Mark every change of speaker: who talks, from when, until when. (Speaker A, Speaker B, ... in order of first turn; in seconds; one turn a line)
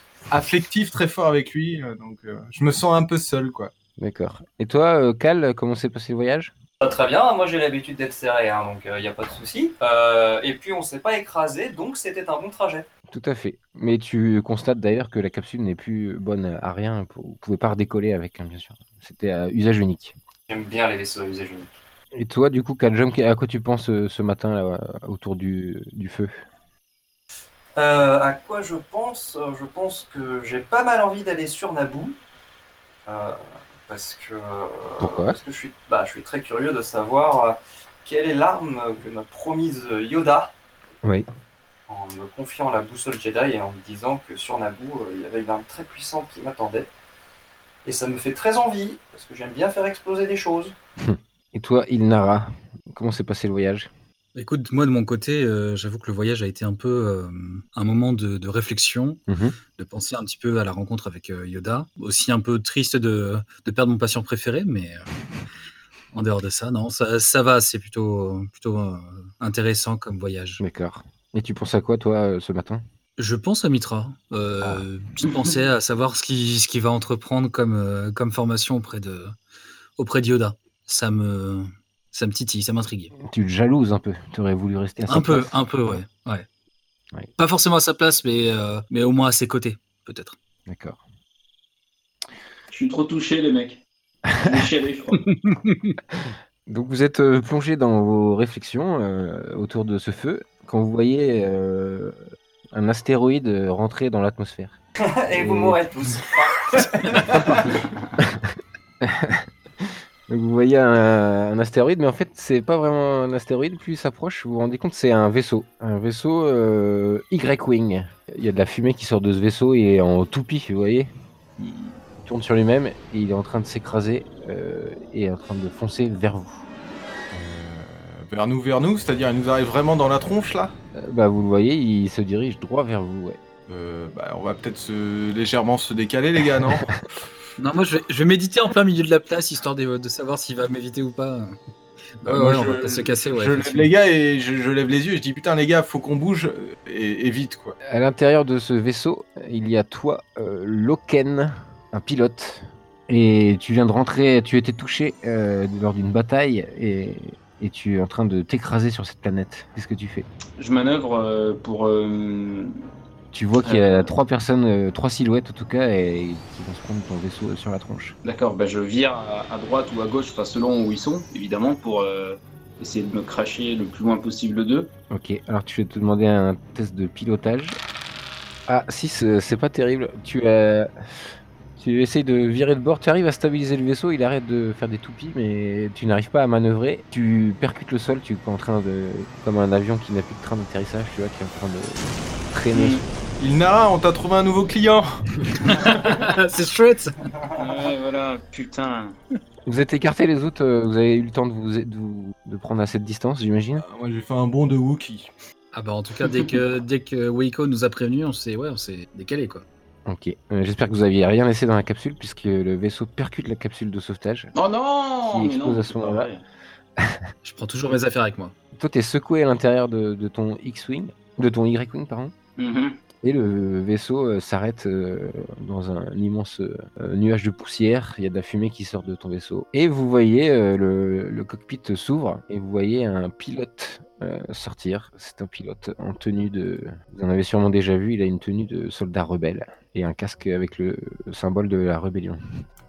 Speaker A: 0.3-3.7
Speaker B: 4.0-6.5
Speaker C: 6.8-12.9
Speaker B: 13.1-20.2
Speaker C: 20.5-21.7
Speaker B: 22.1-26.4
Speaker C: 27.8-32.2
Speaker C: 33.1-40.5
Speaker B: 35.0-35.4
Speaker C: 41.9-46.9
Speaker C: 47.9-50.8
Speaker B: 51.0-53.9
Speaker D: 54.4-59.2
Speaker B: 59.3-59.6
Speaker D: 59.8-65.1
Speaker D: 66.1-70.6
Speaker B: 70.6-72.8
Speaker D: 73.2-79.4
Speaker D: 80.0-83.1
Speaker B: 83.2-86.0
Speaker D: 85.1-86.5
Speaker D: 87.4-90.4
Speaker B: 90.7-91.0
Speaker E: 92.7-93.8
Speaker E: 94.4-95.2
Speaker D: 95.4-96.0
Speaker B: 96.2-102.2
Speaker B: 102.7-104.8
Speaker C: 105.0-107.8
Speaker B: 105.3-105.8
Speaker B: 108.2-108.5
Speaker B: 109.0-121.1
Speaker E: 121.6-121.9
Speaker B: 122.2-126.7
Speaker A: 127.3-130.7
Speaker B: 130.9-133.4
Speaker A: 133.7-137.0
Speaker D: 137.6-141.6
Speaker D: 142.2-143.9
Speaker A: 142.3-147.8
Speaker B: 147.9-160.3
Speaker E: 160.6-162.7
Speaker B: 163.3-168.2
Speaker E: 163.6-164.1
Speaker E: 168.2-174.9
Speaker B: 175.1-177.8
Speaker B: 178.7-193.1
Speaker E: 192.7-193.1
Speaker A: 193.4-195.2
Speaker D: 195.7-197.2
Speaker E: 197.6-199.2
Speaker B: 199.7-203.8
Speaker A: 203.8-205.3
Speaker D: 205.7-209.7
Speaker B: 210.1-214.5
Speaker E: 214.6-216.4
Speaker B: 215.3-216.3
Speaker B: 217.0-217.3
Speaker D: 217.4-218.6
Speaker B: 218.7-222.3
Speaker E: 222.6-223.0
Speaker B: 223.2-242.4